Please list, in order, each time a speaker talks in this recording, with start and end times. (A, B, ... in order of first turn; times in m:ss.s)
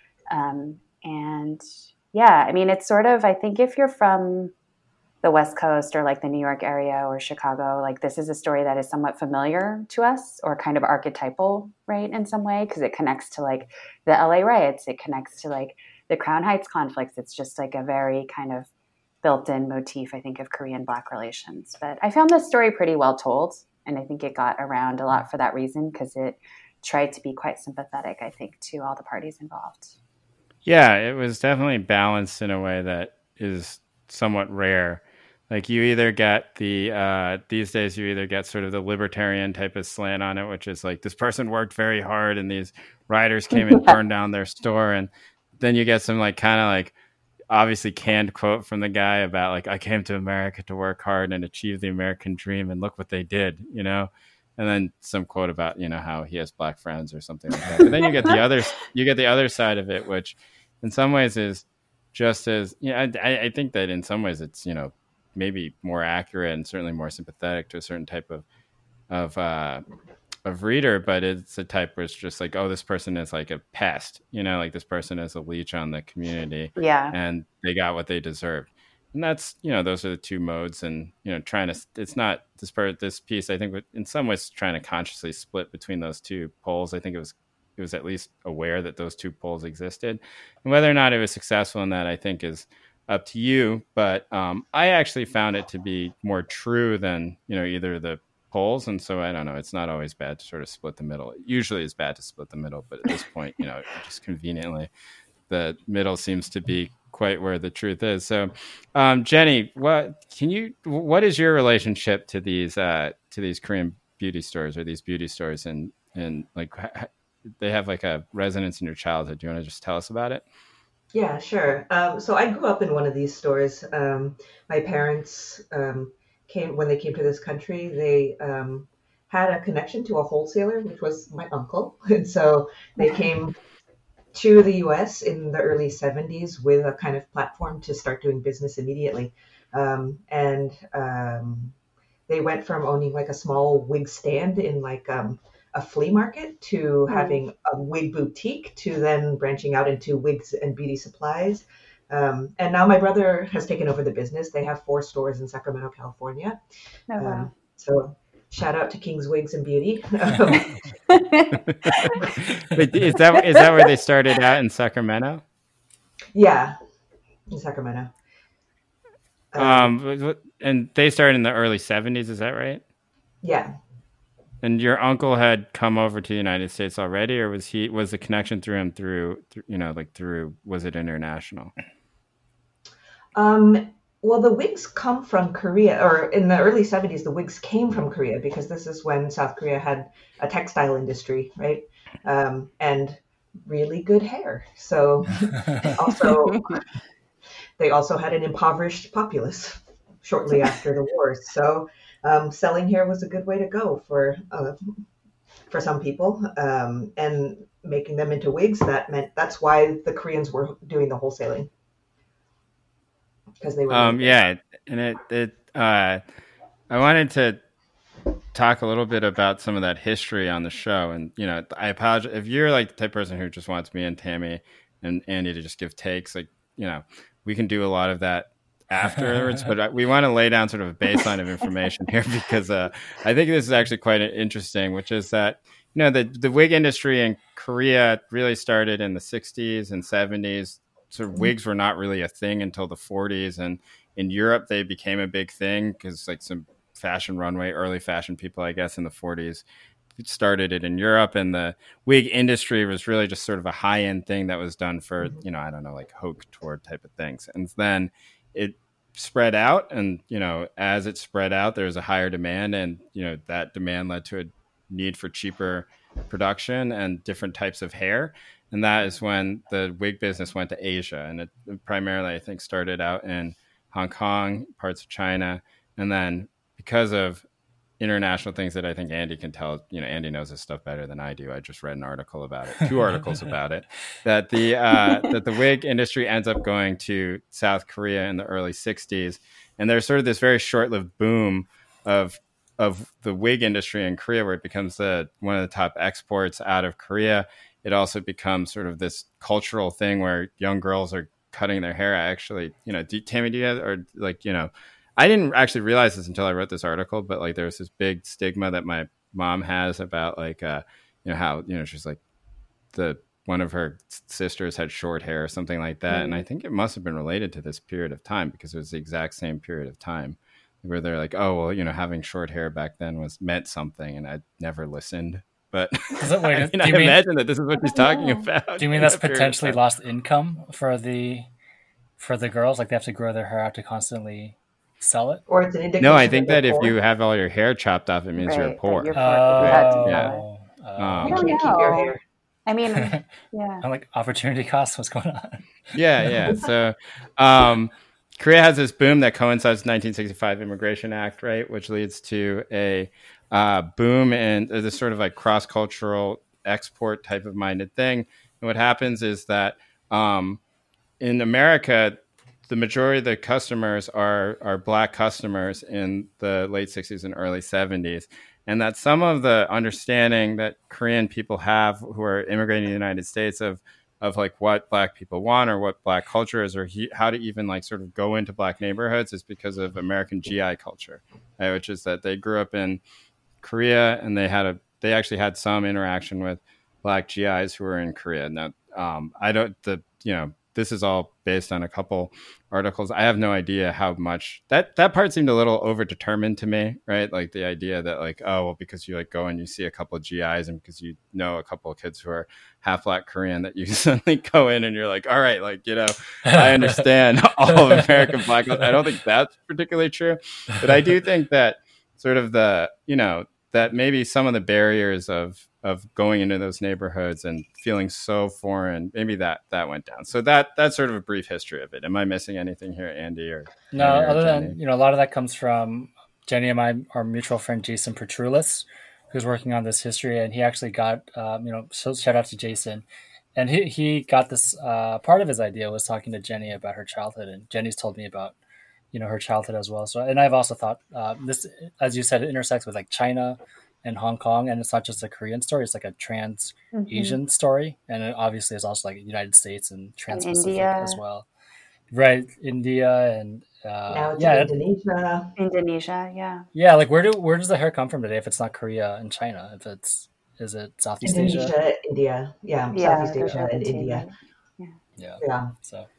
0:00.3-0:04.5 A
0:05.2-0:18.7 A
0:19.2-0:29.9 A
0:30.6-0:46.9 B
0:43.6-0:43.9 A
0:47.5-1:08.4 B
0:57.6-0:58.4 A
1:09.1-1:09.8 B
1:10.4-1:44.9 B
1:16.8-1:17.1 A
1:45.5-2:00.4 B
2:01.1-2:13.6 C
2:14.3-2:21.7 C
2:22.3-2:36.6 C
2:27.1-2:27.4 A
2:37.1-2:37.5 A
2:37.2-2:40.9 C
2:41.1-2:42.2 A
2:41.7-2:45.4 B
2:43.2-2:43.7 A
2:46.3-2:46.8 C
2:47.5-2:48.1 C
2:49.5-2:49.9 C
2:49.6-2:52.8 B
2:53.4-2:53.7 C
2:54.6-3:01.7 B
3:03.3-3:16.8 C
3:16.3-3:16.8 A
3:17.8-3:24.9 C
3:25.7-3:31.7 C
3:33.6-3:34.3 C
3:33.9-3:36.2 B
3:36.9-3:37.6 B
3:38.5-4:09.6 B
4:10.2-4:37.4 B
4:38.0-5:12.2 B
4:45.0-4:45.3 A
5:12.9-5:29.8 B
5:16.1-5:16.4 A
5:26.2-5:27.2 D
5:27.9-5:28.4 A
5:28.8-5:31.5 D
5:32.2-5:35.4 D
5:35.5-5:36.9 C
5:36.0-5:40.3 B
5:38.4-5:40.4 A
5:39.1-5:41.5 D
5:41.0-5:41.5 B
5:41.2-5:42.2 C
5:41.3-5:42.1 A
5:42.7-5:43.8 A
5:43.0-5:43.2 D
5:43.8-5:45.6 D
5:45.9-6:00.6 B
6:01.2-6:23.0 B
6:23.6-7:04.8 B
7:03.9-7:13.0 D
7:13.6-7:18.5 D
7:19.1-7:31.4 D
7:26.9-7:27.4 A
7:30.3-7:31.2 A
7:32.1-7:34.7 D
7:34.1-7:35.5 C
7:35.6-7:36.6 A
7:36.7-7:41.7 D
7:41.2-7:44.2 C
7:42.9-7:45.0 A
7:45.2-7:46.1 D
7:45.4-7:45.7 C